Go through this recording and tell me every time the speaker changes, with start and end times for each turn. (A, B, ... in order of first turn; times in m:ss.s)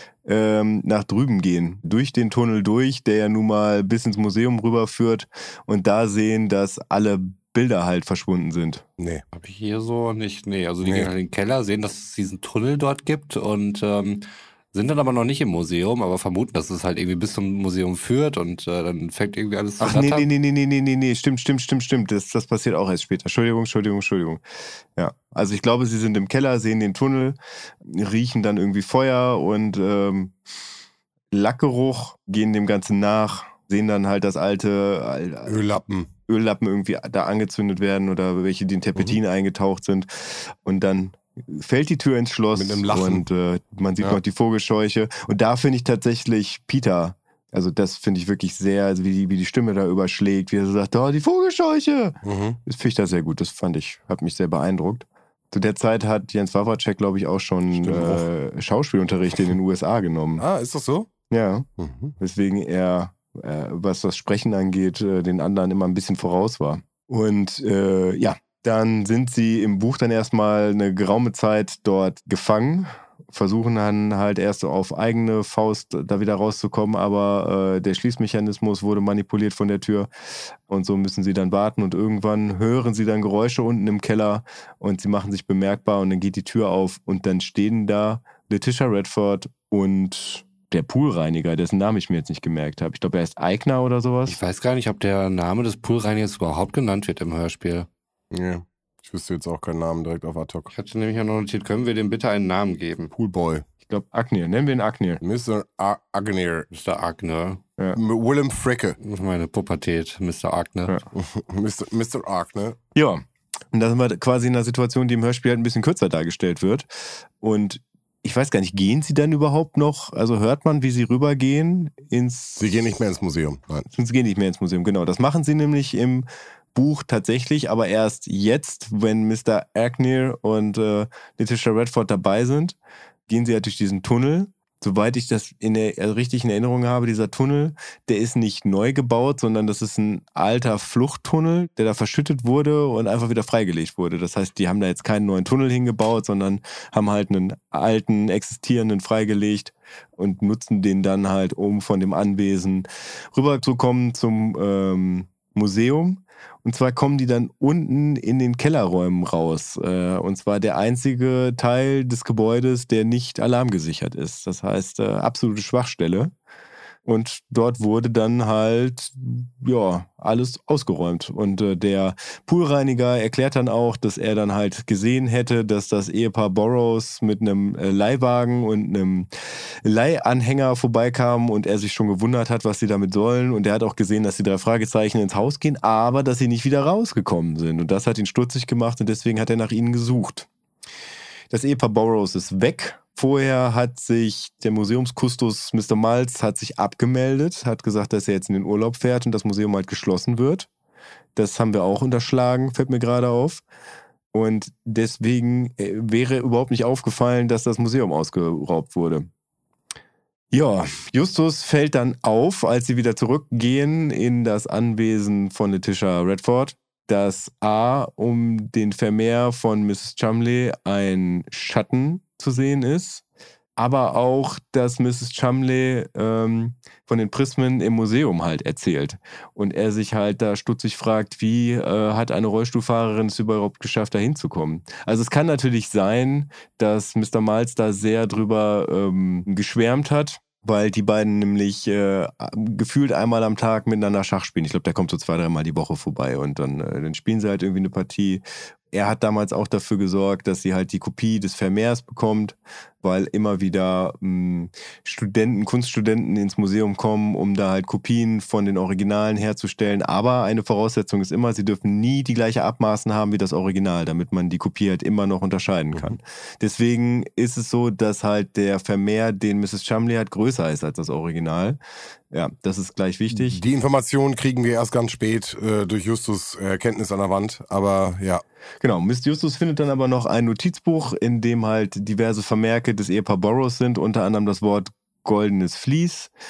0:00.2-0:08.8 A
0:09.0-0:09.2 B
0:09.3-0:20.3 C
0:10.8-0:11.1 B
0:19.8-0:24.4 A
0:25.0-0:30.4 A
0:31.3-0:35.6 A
0:35.5-0:36.1 B
0:36.3-1:00.4 A
0:42.6-0:43.2 B
0:52.2-0:52.6 B
0:57.7-0:58.2 B
1:00.4-1:01.1 B
1:01.3-1:01.7 A
1:01.8-1:02.1 B
1:02.2-1:20.1 A
1:20.7-1:34.4 A
1:34.3-1:37.9 C
1:38.3-1:40.7 B
1:40.7-1:43.1 C
1:43.2-1:43.6 B
1:43.9-1:45.2 A
1:45.2-1:46.7 B
1:46.7-1:47.6 C
1:48.0-1:49.0 B
1:49.0-1:51.0 C
1:51.1-1:52.8 B
1:53.0-1:56.9 A
1:57.4-2:02.7 A
2:02.6-2:03.9 B
2:04.0-2:12.8 A
2:13.3-2:46.3 A
2:47.1-2:59.3 A
2:59.8-3:10.5 A
3:11.5-3:20.7 A
3:21.4-3:23.6 A
3:24.3-3:29.3 A
3:30.5-3:43.2 A
3:43.8-4:31.8 A
4:32.3-4:33.6 A
4:33.3-4:38.4 B
4:38.8-4:46.3 A